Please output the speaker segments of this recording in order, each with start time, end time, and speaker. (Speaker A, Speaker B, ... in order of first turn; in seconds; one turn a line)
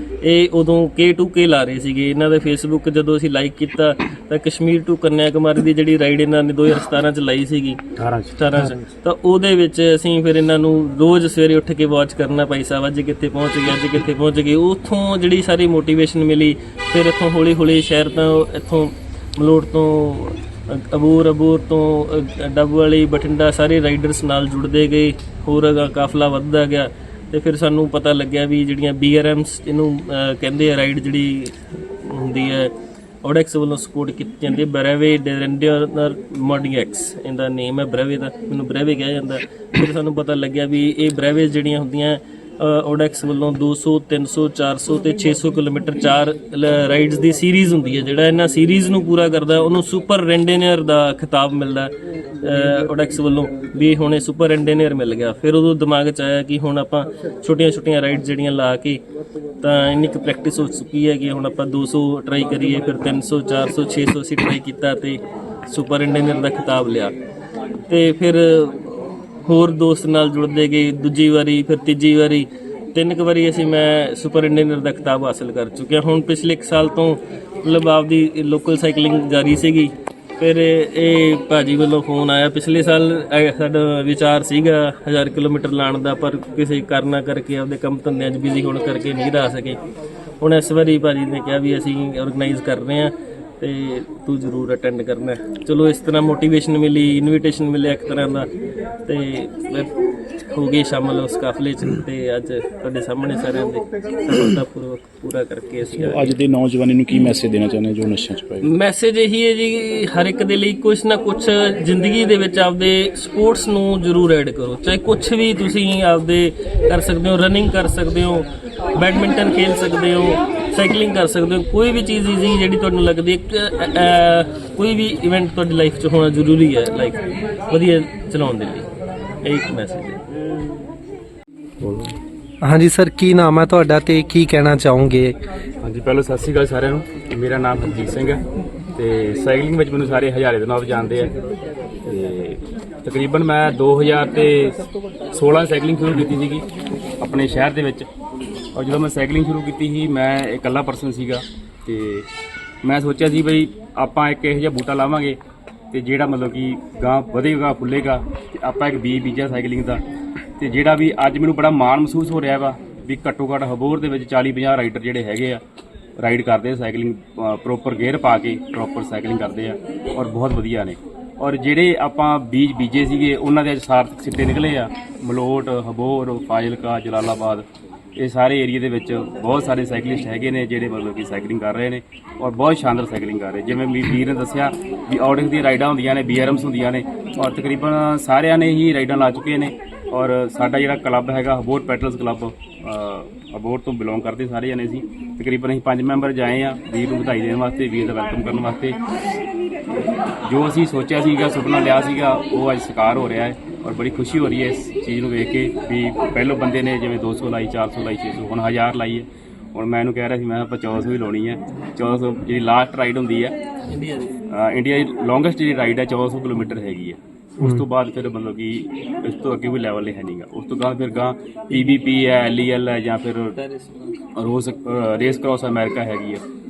Speaker A: 0.2-7.8
Speaker B: 8.0-8.7
Speaker A: 8.4-59.0
Speaker A: 59.6-67.2
Speaker A: 67.9-89.8
Speaker A: 90.4-98.5
Speaker A: 99.0-106.3
Speaker C: 105.9-108.7
Speaker A: 108.6-128.9
Speaker A: 129.4-130.2
Speaker B: 131.8-132.1
Speaker D: 132.6-135.4
Speaker B: 135.8-138.4
Speaker B: 138.9-141.3
Speaker B: 142.0-144.8
Speaker B: 145.3-146.7
Speaker B: 147.2-148.1
Speaker B: 148.8-152.3
Speaker B: 152.8-155.4
Speaker B: 155.9-160.0
Speaker B: 160.6-165.6
Speaker B: 166.2-177.7
Speaker B: 178.2-199.0
Speaker B: 200.5-213.6
Speaker A: 213.9-214.3
Speaker B: 214.5-223.6
Speaker B: 224.4-226.4